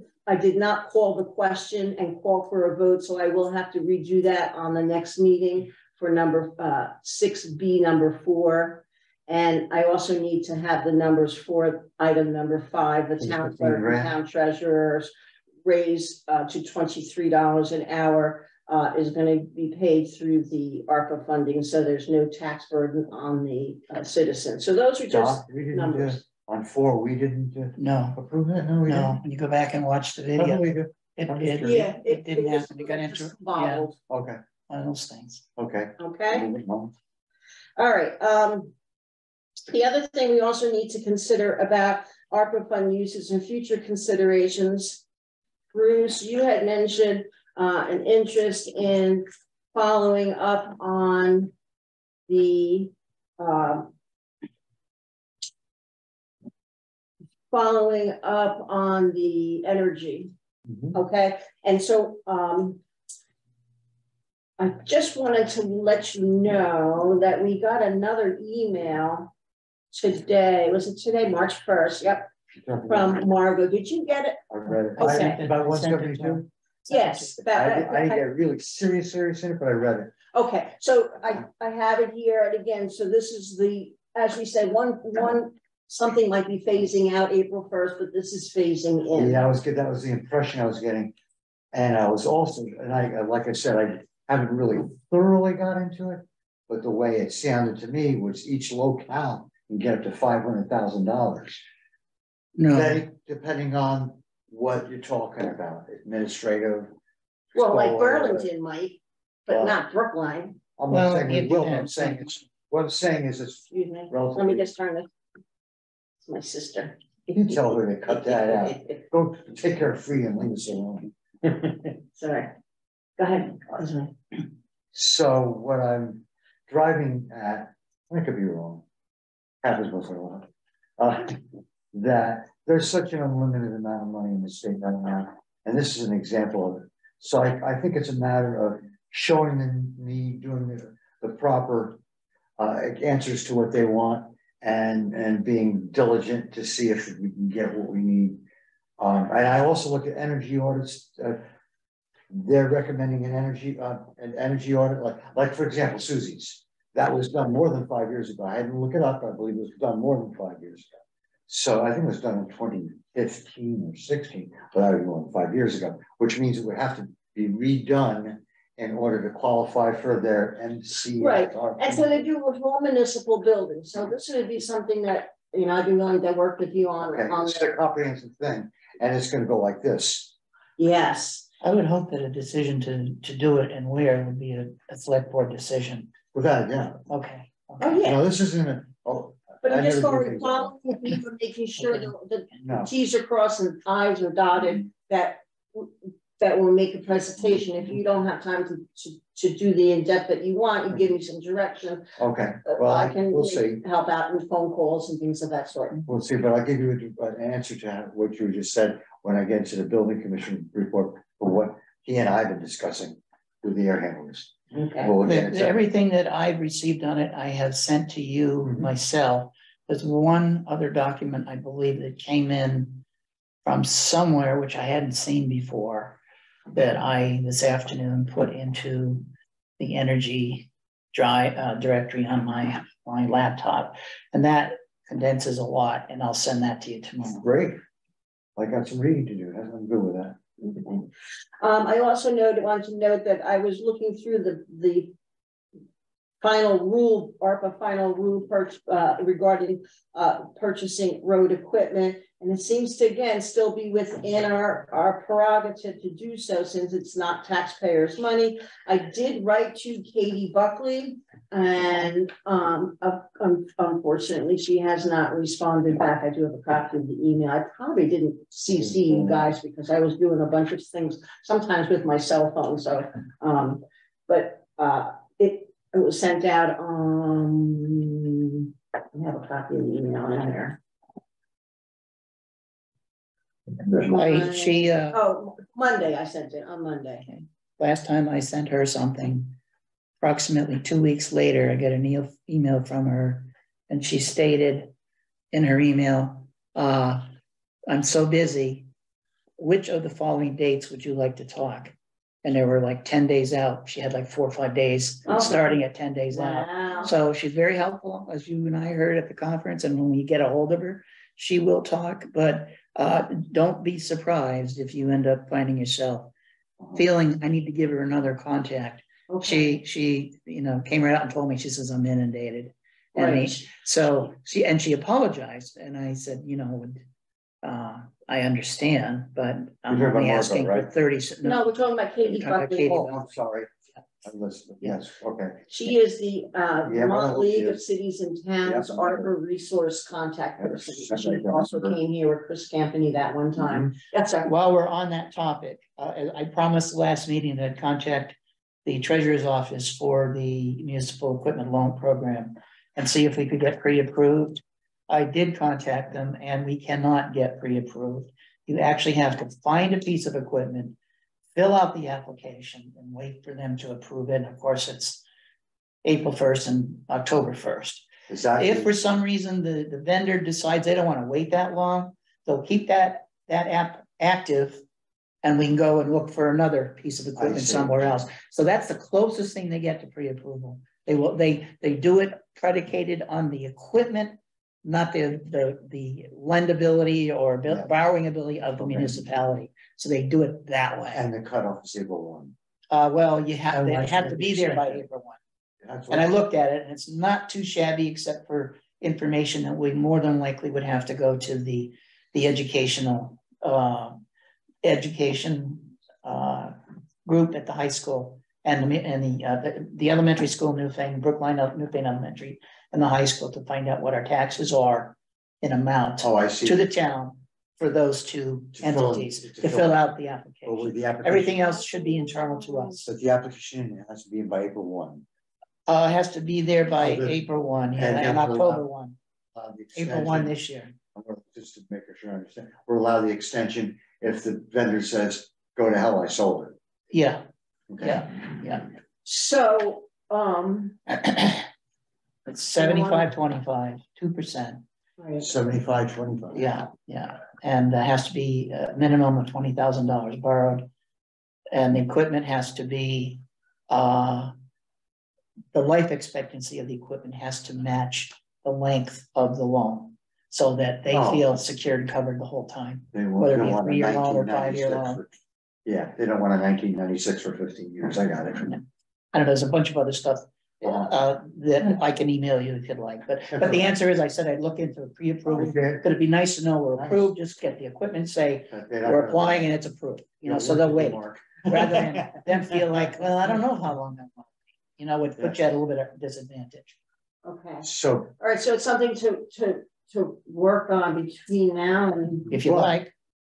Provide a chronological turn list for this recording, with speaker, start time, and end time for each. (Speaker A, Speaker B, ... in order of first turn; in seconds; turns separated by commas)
Speaker A: 0.3-15.1, Speaker B: 13.2-14.1, Speaker A: 15.6-26.2, Speaker B: 25.1-29.2, Speaker C: 27.8-28.2, Speaker C: 28.9-33.9, Speaker B: 30.4-31.9, Speaker A: 31.6-34.0, Speaker B: 34.1-34.4, Speaker C: 34.7-35.4, Speaker B: 35.6-36.9, Speaker A: 36.0-36.5, Speaker A: 37.8-38.7, Speaker A: 39.7-45.0, Speaker A: 45.7-51.5, Speaker A: 52.3-53.9, Speaker A: 57.5-60.3, Speaker A: 60.9-62.8, Speaker A: 64.6-69.3, Speaker A: 69.9-72.3, Speaker B: 72.5-73.2, Speaker A: 72.9-74.4, Speaker B: 74.5-76.5, Speaker A: 75.0-75.4, Speaker C: 75.0-77.3, Speaker A: 76.9-78.2, Speaker B: 77.5-80.1, Speaker A: 80.3-89.4, Speaker B: 89.1-91.1, Speaker B: 91.7-101.6, Speaker C: 102.6-103.0, Speaker B: 102.7-106.9, Speaker B: 107.5-108.5, Speaker A: 107.5-110.6, Speaker B: 109.5-109.8, Speaker B: 110.8-114.7, Speaker C: 110.9-112.4, Speaker A: 113.7-115.1, Speaker A: 116.2-117.0, Speaker B: 117.3-121.1, Speaker A: 118.1-119.0, Speaker A: 122.1-122.5, Speaker A: 123.2-124.2, Speaker B: 124.9-128.8, Speaker B: 129.6-142.0, Speaker B: 142.6-148.4, Speaker B: 149.0-151.5, Speaker B: 152.3-160.9, Speaker B: 161.5-172.2, Speaker A: 171.2-177.7, Speaker B: 177.0-180.3, Speaker A: 180.8-181.4, Speaker C: 181.6-186.1, Speaker B: 186.3-187.0, Speaker C: 187.1-187.9, Speaker A: 187.8-188.2, Speaker B: 187.9-190.7, Speaker A: 189.6-202.1, Speaker B: 192.6-192.9, Speaker B: 202.2-203.8, Speaker A: 202.6-206.0, Speaker B: 206.1-215.8, Speaker A: 214.7-215.1, Speaker C: 215.2-223.0, Speaker C: 223.6-226.2, Speaker C: 226.7-229.3, Speaker C: 229.8-237.4, Speaker B: 237.3-237.8, Speaker B: 238.6-240.4, Speaker A: 240.6-241.1, Speaker A: 241.6-245.1, Speaker A: 246.4-280.8, Speaker B: 268.8-269.5, Speaker C: 283.8-285.2, Speaker A: 283.9-287.2, Speaker C: 287.2-289.6, Speaker C: 290.2-294.9, Speaker C: 295.5-297.2, Speaker C: 297.9-298.9, Speaker C: 299.6-316.3, Speaker A: 305.3-305.7, Speaker A: 306.3-307.1, Speaker C: 316.9-327.0, Speaker A: 319.3-319.8, Speaker A: 323.1-323.6, Speaker C: 327.6-331.6, Speaker B: 329.9-330.9, Speaker A: 331.4-333.1, Speaker C: 332.3-333.2, Speaker B: 332.8-333.7, Speaker B: 334.2-335.6, Speaker A: 335.7-344.5, Speaker B: 336.8-337.8, Speaker B: 338.6-339.3, Speaker B: 340.6-342.0, Speaker B: 343.6-343.9, Speaker C: 344.4-360.9, Speaker C: 361.5-365.2, Speaker C: 366.0-368.1, Speaker B: 368.3-368.9, Speaker C: 368.6-374.8, Speaker C: 375.4-391.2, Speaker B: 377.4-378.1, Speaker B: 388.8-389.2, Speaker B: 391.1-392.5, Speaker C: 392.9-395.4, Speaker B: 393.7-395.0, Speaker B: 395.8-396.3, Speaker C: 396.1-404.2, Speaker C: 404.8-423.1, Speaker B: 416.2-416.9, Speaker B: 418.7-420.0, Speaker B: 420.6-421.6, Speaker B: 423.1-425.2, Speaker C: 425.9-429.2, Speaker B: 427.0-427.4, Speaker B: 427.9-428.8, Speaker B: 429.5-430.5, Speaker C: 429.9-430.9, Speaker B: 431.1-436.8, Speaker C: 437.1-437.4, Speaker B: 437.9-438.2, Speaker C: 438.0-438.9, Speaker A: 439.2-441.0, Speaker C: 441.1-441.7, Speaker C: 442.4-444.8, Speaker A: 442.8-443.3, Speaker A: 445.2-445.5, Speaker B: 445.4-446.7, Speaker C: 446.5-450.9, Speaker C: 451.7-454.5, Speaker C: 455.7-465.2, Speaker B: 461.1-461.4, Speaker B: 463.1-465.3, Speaker B: 465.9-468.8, Speaker C: 469.3-487.0, Speaker B: 470.8-471.1, Speaker B: 473.5-473.9, Speaker B: 475.5-476.0, Speaker B: 476.9-477.3, Speaker B: 478.7-479.7, Speaker B: 480.4-483.1, Speaker A: 487.4-487.9, Speaker B: 487.8-488.3, Speaker A: 488.4-492.5, Speaker C: 492.5-493.1, Speaker B: 492.5-492.9